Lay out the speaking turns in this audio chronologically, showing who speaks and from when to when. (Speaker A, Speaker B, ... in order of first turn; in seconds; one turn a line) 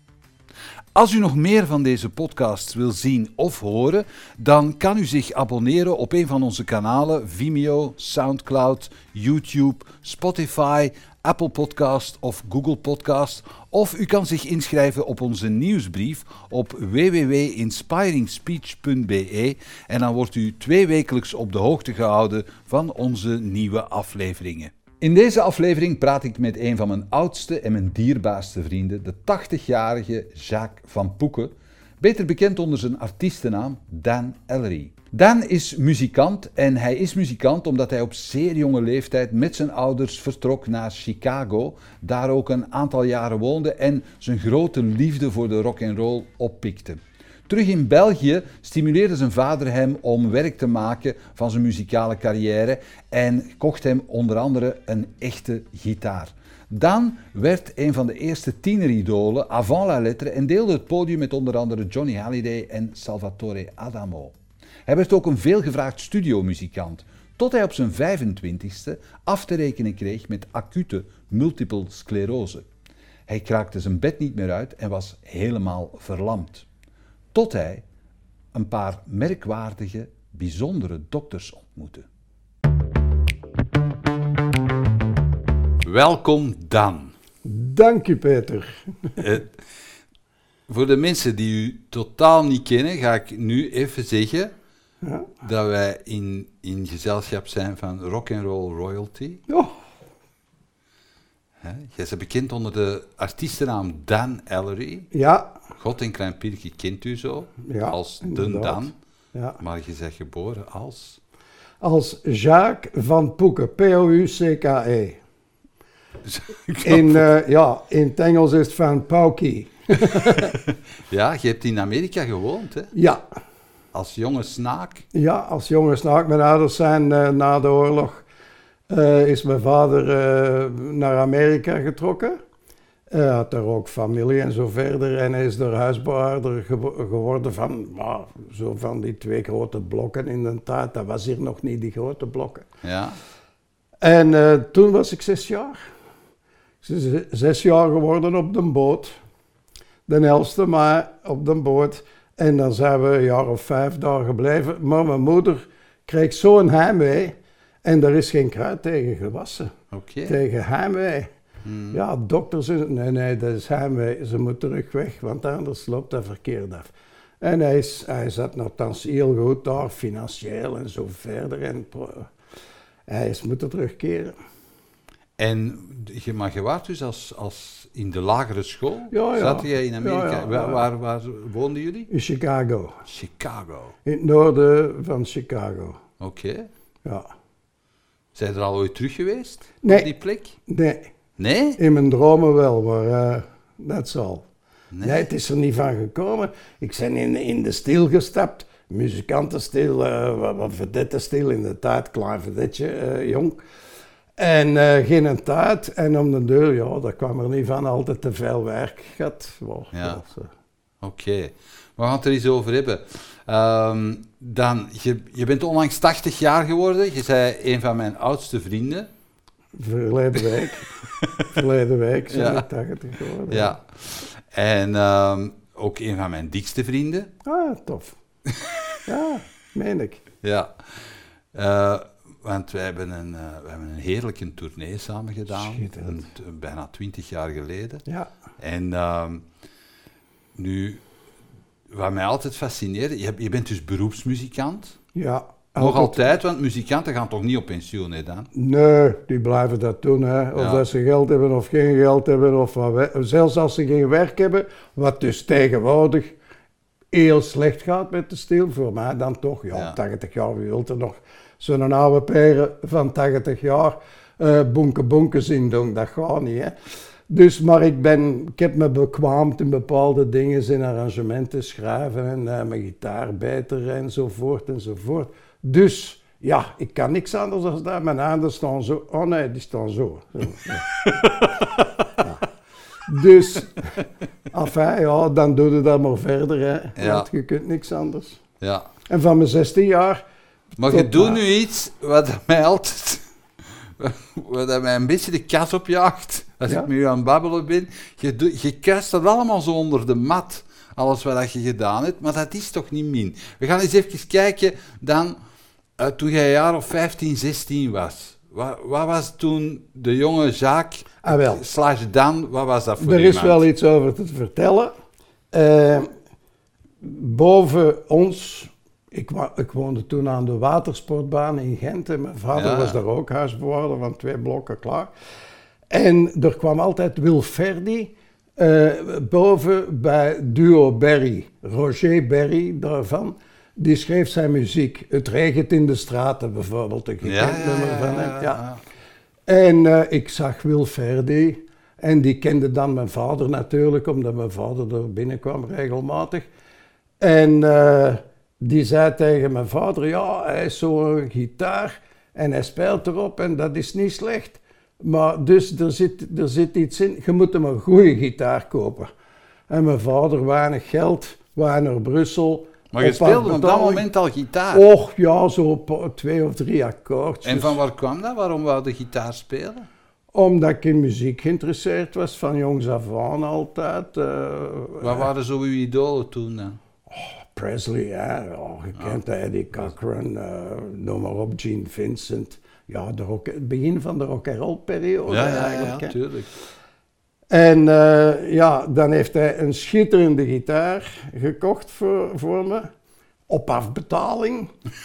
Speaker A: 0.9-72.7
Speaker A: 73.3-76.7
Speaker A: 77.3-77.8
Speaker A: 78.5-82.0
Speaker A: 85.8-87.1
Speaker B: 87.4-89.2
Speaker A: 89.2-89.5
Speaker A: 90.7-94.5
Speaker B: 95.0-95.3
Speaker A: 95.4-99.4
Speaker B: 99.5-99.7
Speaker A: 101.6-105.1
Speaker B: 105.1-105.5
Speaker A: 105.8-108.9
Speaker B: 107.6-109.6
Speaker A: 109.6-111.2
Speaker B: 111.8-115.2
Speaker A: 116.2-117.2
Speaker B: 116.8-120.5
Speaker A: 120.2-122.9
Speaker B: 122.9-123.2
Speaker A: 123.9-125.0
Speaker B: 125.1-128.2
Speaker B: 128.9-132.4
Speaker B: 133.1-142.7
Speaker A: 142.8-143.2
Speaker B: 144.0-145.8
Speaker B: 146.8-149.2
Speaker B: 150.1-159.7
Speaker A: 159.9-160.3
Speaker B: 160.3-161.3
Speaker A: 161.6-162.0
Speaker B: 161.9-172.3
Speaker B: 173.1-174.3
Speaker A: 175.4-182.1
Speaker B: 179.1-180.8
Speaker B: 182.1-183.0
Speaker A: 183.1-183.9
Speaker B: 184.0-186.0
Speaker A: 186.2-186.7
Speaker A: 188.3-190.6
Speaker B: 189.8-190.1
Speaker B: 190.7-191.1
Speaker A: 191.4-191.8
Speaker B: 191.8-194.5
Speaker A: 194.9-195.3
Speaker B: 195.0-203.6
Speaker B: 204.4-210.5
Speaker A: 209.9-210.2
Speaker A: 211.0-219.1
Speaker B: 219.8-223.8
Speaker A: 220.5-221.5
Speaker A: 222.3-222.7
Speaker A: 223.5-227.3
Speaker B: 227.4-228.2
Speaker A: 228.5-228.8
Speaker B: 229.1-230.2
Speaker A: 230.4-238.0
Speaker B: 235.5-236.3
Speaker A: 238.6-239.4
Speaker A: 240.6-241.0
Speaker A: 241.9-245.0
Speaker B: 245.1-246.3
Speaker A: 245.8-248.5
Speaker B: 248.5-256.4
Speaker A: 250.6-250.8
Speaker B: 257.1-266.7
Speaker B: 267.3-280.9
Speaker A: 280.9-282.2
Speaker B: 283.1-288.4
Speaker A: 287.0-287.3
Speaker A: 288.6-288.9
Speaker B: 289.1-290.2
Speaker B: 290.8-291.4
Speaker A: 290.8-305.4
Speaker A: 306.0-313.7
Speaker B: 311.2-311.6
Speaker B: 313.0-314.9
Speaker B: 315.5-316.1
Speaker B: 317.0-325.1
Speaker A: 322.5-323.0
Speaker B: 325.9-338.6
Speaker A: 337.2-338.8
Speaker B: 339.5-346.5
Speaker B: 347.2-359.1
Speaker B: 359.7-364.0
Speaker A: 362.9-364.8
Speaker B: 364.7-367.8
Speaker A: 367.4-369.9
Speaker B: 370.3-375.3
Speaker A: 375.0-376.8
Speaker B: 377.1-386.1
Speaker A: 385.3-386.5
Speaker B: 387.5-392.9
Speaker B: 393.5-394.7